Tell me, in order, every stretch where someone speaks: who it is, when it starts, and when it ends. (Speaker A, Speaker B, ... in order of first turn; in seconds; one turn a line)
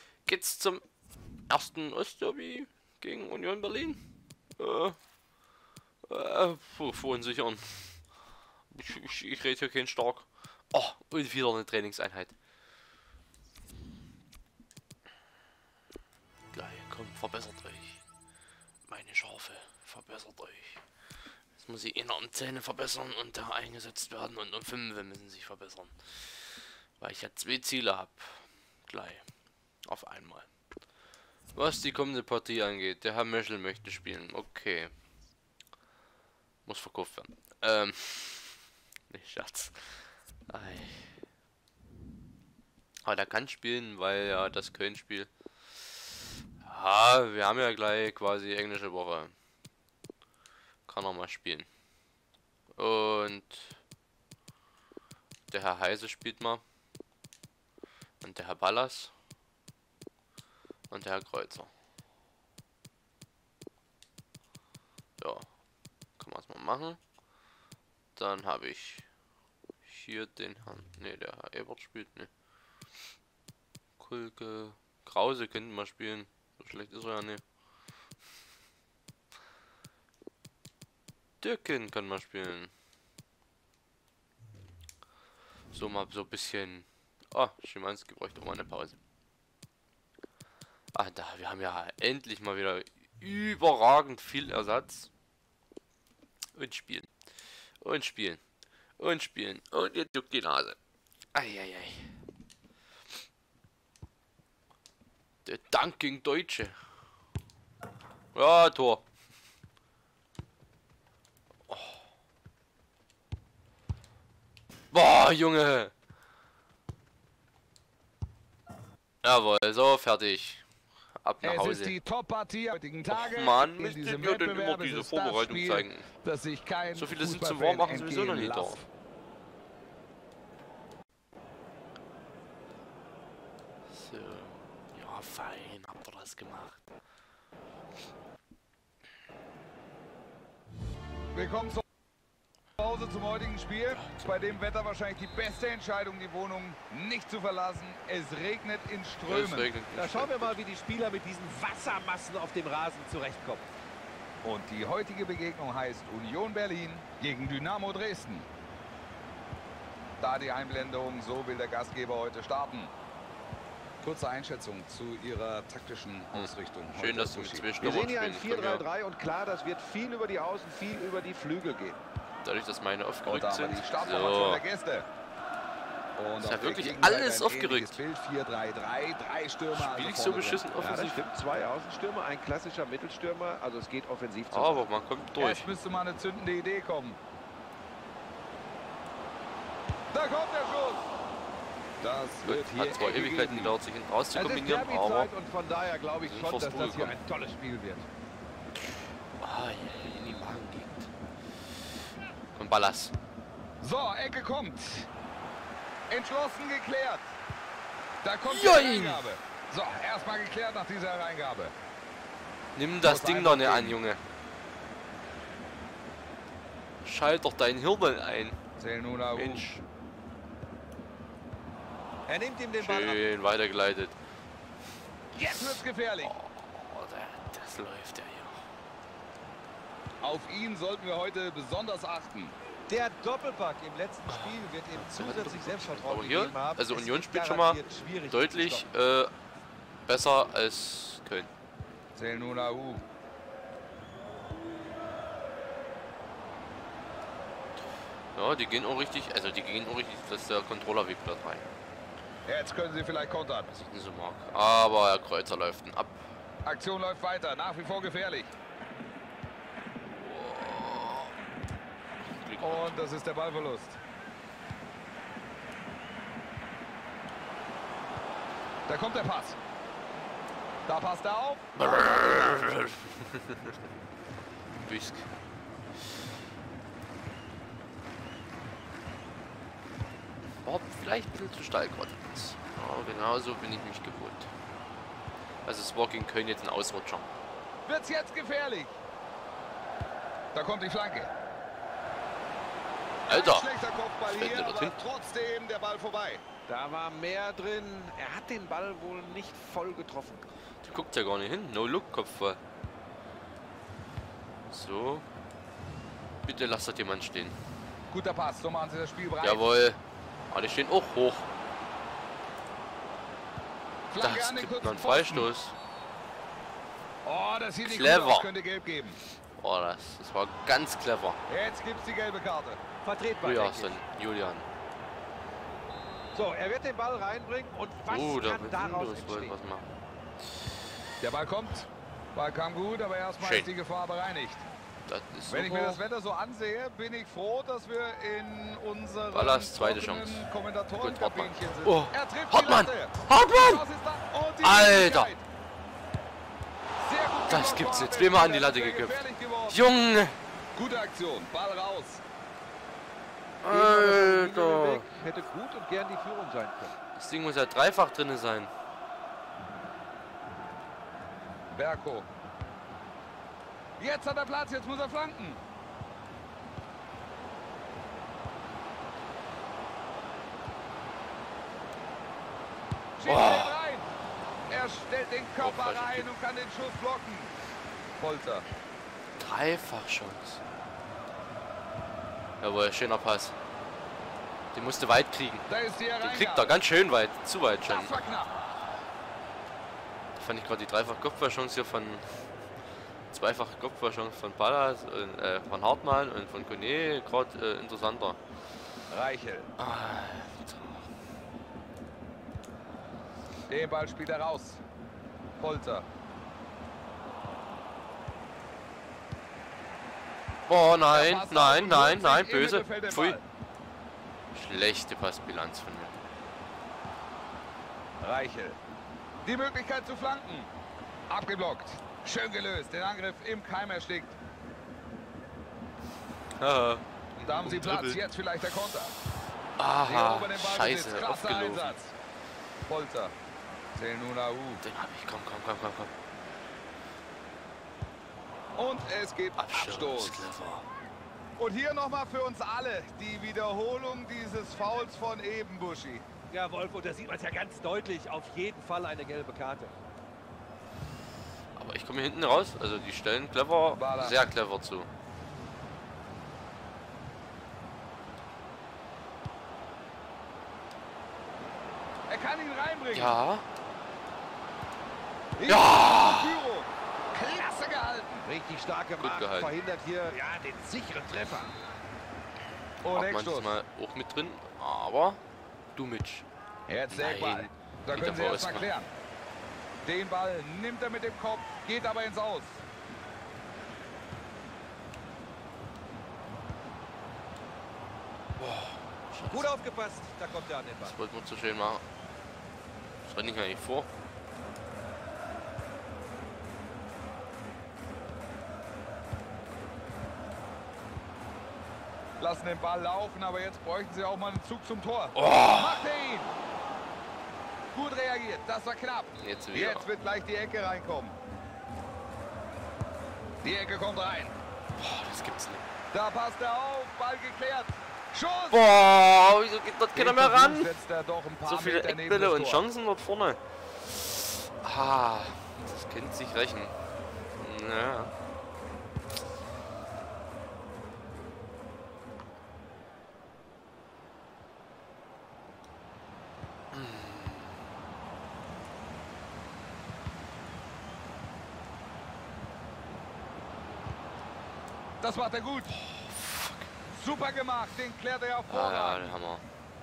Speaker A: 0.3-0.8
Speaker A: 1.5-4.0
Speaker A: 4.6-5.0
Speaker A: 6.1-8.0
Speaker A: 8.7-12.3
Speaker A: 16.5-18.0
Speaker A: 18.9-20.8
Speaker A: 21.6-26.3
Speaker A: 27.0-29.2
Speaker A: 29.9-30.5
Speaker A: 31.6-34.9
Speaker A: 36.7-41.2
Speaker A: 43.0-45.3
Speaker A: 46.6-49.3
Speaker A: 50.9-51.7
Speaker A: 52.8-53.8
Speaker A: 55.5-56.6
Speaker A: 58.2-59.1
Speaker A: 60.9-61.7
Speaker A: 65.2-65.5
Speaker A: 66.2-67.0
Speaker A: 68.2-69.1
Speaker A: 69.8-72.3
Speaker A: 74.0-77.4
Speaker A: 81.4-82.7
Speaker A: 85.7-89.0
Speaker A: 90.9-95.1
Speaker A: 96.5-97.1
Speaker A: 97.8-98.4
Speaker A: 99.0-100.8
Speaker A: 101.3-102.2
Speaker A: 105.5-106.8
Speaker A: 108.3-109.0
Speaker A: 111.7-112.0
Speaker A: 114.9-115.9
Speaker A: 119.2-120.6
Speaker A: 121.2-122.0
Speaker B: 121.4-128.9
Speaker A: 123.1-126.1
Speaker A: 127.0-128.8
Speaker A: 133.9-136.8
Speaker B: 141.3-141.8
Speaker B: 142.8-149.7
Speaker A: 144.0-144.5
Speaker A: 149.3-150.6
Speaker C: 149.9-153.7
Speaker B: 154.4-158.5
Speaker B: 160.2-162.9
Speaker B: 164.0-167.7
Speaker A: 166.3-168.9
Speaker C: 167.8-172.0
Speaker A: 172.4-174.6
Speaker B: 173.2-175.1
Speaker B: 176.2-180.7
Speaker A: 176.4-178.0
Speaker A: 179.7-181.3
Speaker C: 180.7-184.9
Speaker A: 184.5-185.7
Speaker B: 185.4-187.2
Speaker B: 190.1-191.1
Speaker B: 192.0-193.8
Speaker A: 192.4-195.3
Speaker C: 194.3-198.1
Speaker A: 196.2-197.2
Speaker A: 199.4-201.1
Speaker A: 202.5-203.1
Speaker B: 203.8-205.1
Speaker B: 206.1-207.3
Speaker B: 208.2-211.8
Speaker A: 208.4-209.2
Speaker A: 212.8-214.2
Speaker B: 213.0-214.0
Speaker A: 217.0-218.6
Speaker B: 218.8-219.7
Speaker A: 219.3-219.8
Speaker C: 222.3-223.2
Speaker A: 222.8-224.2
Speaker B: 225.3-226.3
Speaker A: 225.4-228.6
Speaker B: 230.2-232.6
Speaker C: 232.9-238.9
Speaker A: 234.3-239.3
Speaker A: 240.1-241.5
Speaker B: 242.2-243.0
Speaker A: 248.3-251.7
Speaker B: 252.5-253.7
Speaker A: 253.7-256.3
Speaker B: 256.6-258.5
Speaker A: 260.2-261.3
Speaker A: 262.3-263.0
Speaker B: 262.6-264.0
Speaker B: 268.9-269.6
Speaker B: 270.9-272.1
Speaker A: 271.8-273.8
Speaker A: 274.8-275.3
Speaker A: 280.6-284.5
Speaker A: 285.6-287.3
Speaker B: 287.9-289.0
Speaker B: 290.5-291.3
Speaker A: 293.3-293.7
Speaker B: 293.3-296.4
Speaker A: 294.3-295.0
Speaker C: 296.7-300.4
Speaker A: 300.8-302.6
Speaker A: 304.7-305.2
Speaker A: 306.5-307.6
Speaker B: 308.1-309.6
Speaker A: 309.4-310.0
Speaker A: 310.5-311.5
Speaker B: 314.1-315.5
Speaker A: 314.2-315.8
Speaker B: 317.2-319.2
Speaker A: 317.8-318.5
Speaker A: 319.6-321.4
Speaker B: 321.5-322.8
Speaker C: 323.0-324.0
Speaker A: 323.4-324.7
Speaker C: 326.3-329.6
Speaker A: 328.1-329.9
Speaker B: 331.2-334.7
Speaker A: 333.4-333.7
Speaker A: 335.1-336.0
Speaker B: 335.5-345.4
Speaker A: 339.3-340.5
Speaker A: 341.0-343.8
Speaker A: 344.6-345.3
Speaker B: 347.0-349.8
Speaker A: 347.5-350.4
Speaker B: 350.7-352.2
Speaker A: 353.6-355.1
Speaker C: 353.7-356.9
Speaker A: 357.1-358.7
Speaker B: 361.7-362.3
Speaker B: 364.0-365.6
Speaker B: 373.2-374.1
Speaker A: 373.2-373.8
Speaker B: 374.7-377.5
Speaker A: 375.6-376.3
Speaker B: 378.2-378.7
Speaker A: 379.4-380.6
Speaker A: 382.6-383.6
Speaker A: 384.7-385.7
Speaker B: 385.7-386.8
Speaker A: 386.2-389.0
Speaker B: 387.8-388.6
Speaker A: 390.4-392.4
Speaker A: 393.3-398.4
Speaker B: 399.1-399.7
Speaker A: 399.8-401.1
Speaker B: 403.7-404.8
Speaker B: 405.6-406.1
Speaker A: 410.7-413.4
Speaker B: 411.1-413.4
Speaker A: 414.5-416.2
Speaker B: 418.2-418.8
Speaker B: 419.4-420.7
Speaker B: 421.3-424.4
Speaker A: 426.6-428.2
Speaker B: 427.4-429.1
Speaker A: 429.8-431.9
Speaker B: 430.0-432.1
Speaker B: 432.9-433.3
Speaker B: 433.9-434.8
Speaker A: 434.8-436.1
Speaker B: 438.8-440.5
Speaker A: 439.6-440.9
Speaker B: 441.6-446.2
Speaker C: 446.5-449.9
Speaker A: 451.8-455.1
Speaker B: 453.9-454.4
Speaker B: 462.3-463.4
Speaker A: 463.1-463.7
Speaker B: 465.6-468.5
Speaker A: 465.7-466.6
Speaker C: 468.4-471.7
Speaker A: 469.2-469.7
Speaker B: 473.0-473.8
Speaker A: 473.1-475.4
Speaker A: 475.9-476.5
Speaker B: 476.9-479.1
Speaker A: 477.1-478.9
Speaker B: 480.1-482.8
Speaker A: 489.2-489.7
Speaker C: 489.5-491.1
Speaker A: 491.0-492.0
Speaker A: 493.2-494.1
Speaker B: 502.4-506.5
Speaker A: 505.4-506.1
Speaker B: 507.9-511.4
Speaker A: 509.4-510.1
Speaker B: 513.6-514.6
Speaker A: 515.0-515.9
Speaker B: 516.1-518.9
Speaker A: 518.7-520.9
Speaker B: 520.1-522.9
Speaker A: 521.6-527.0
Speaker A: 527.6-528.3
Speaker A: 536.9-537.8
Speaker B: 545.2-545.9
Speaker A: 545.9-546.9
Speaker B: 547.1-549.4
Speaker A: 548.7-549.6